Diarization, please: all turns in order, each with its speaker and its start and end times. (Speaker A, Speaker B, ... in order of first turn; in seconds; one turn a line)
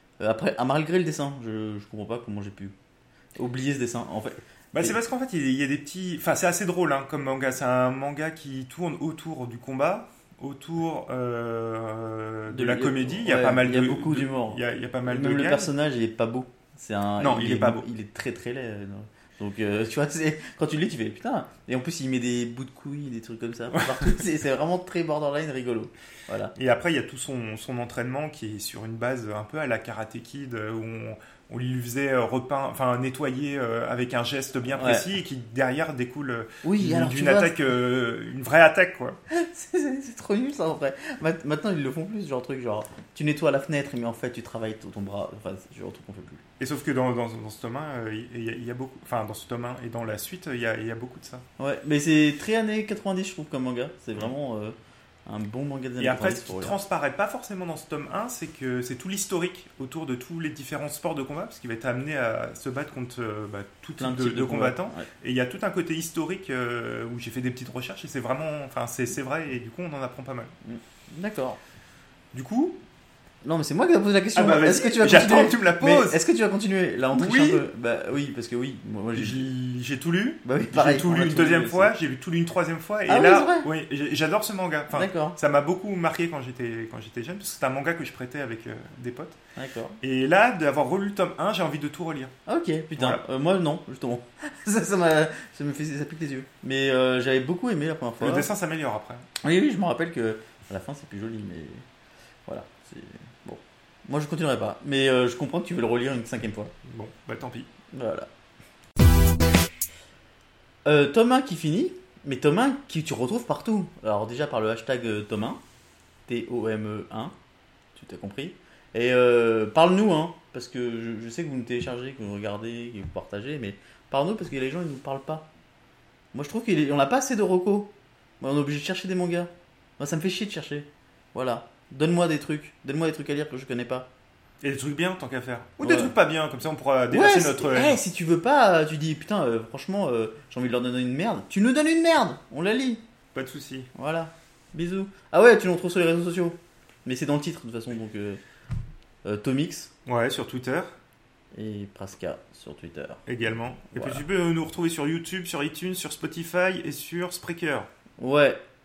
Speaker A: 0.2-2.8
Speaker A: 3.4-5.0
Speaker B: 4.7-15.7
Speaker A: 12.5-26.5
Speaker B: 17.2-17.9
Speaker B: 23.7-24.2
Speaker B: 26.6-39.2
Speaker A: 34.7-35.1
Speaker A: 36.6-37.6
Speaker A: 39.3-46.4
Speaker B: 46.6-51.4
Speaker A: 51.6-56.8
Speaker B: 56.0-70.5
Speaker A: 64.0-65.1
Speaker A: 70.7-71.6
Speaker B: 72.3-72.8
Speaker A: 73.4-79.4
Speaker B: 74.3-76.2
Speaker B: 77.1-77.6
Speaker B: 79.2-89.4
Speaker A: 80.5-81.9
Speaker A: 83.1-83.7
Speaker A: 84.9-85.4
Speaker A: 89.6-90.0
Speaker B: 90.0-92.3
Speaker A: 92.5-98.5
Speaker B: 93.0-93.2
Speaker B: 98.2-99.3
Speaker A: 99.4-101.8
Speaker A: 102.5-106.7
Speaker B: 106.8-107.7
Speaker A: 107.9-108.3
Speaker A: 110.8-115.6
Speaker A: 116.3-117.3
Speaker A: 118.0-125.5
Speaker A: 126.3-134.1
Speaker B: 134.6-138.0
Speaker A: 135.8-136.1
Speaker A: 137.1-143.0
Speaker B: 143.3-143.9
Speaker A: 143.9-148.4
Speaker A: 149.2-149.9
Speaker B: 150.1-150.9
Speaker A: 151.5-153.2
Speaker B: 153.3-157.9
Speaker A: 153.9-154.2
Speaker A: 158.2-158.6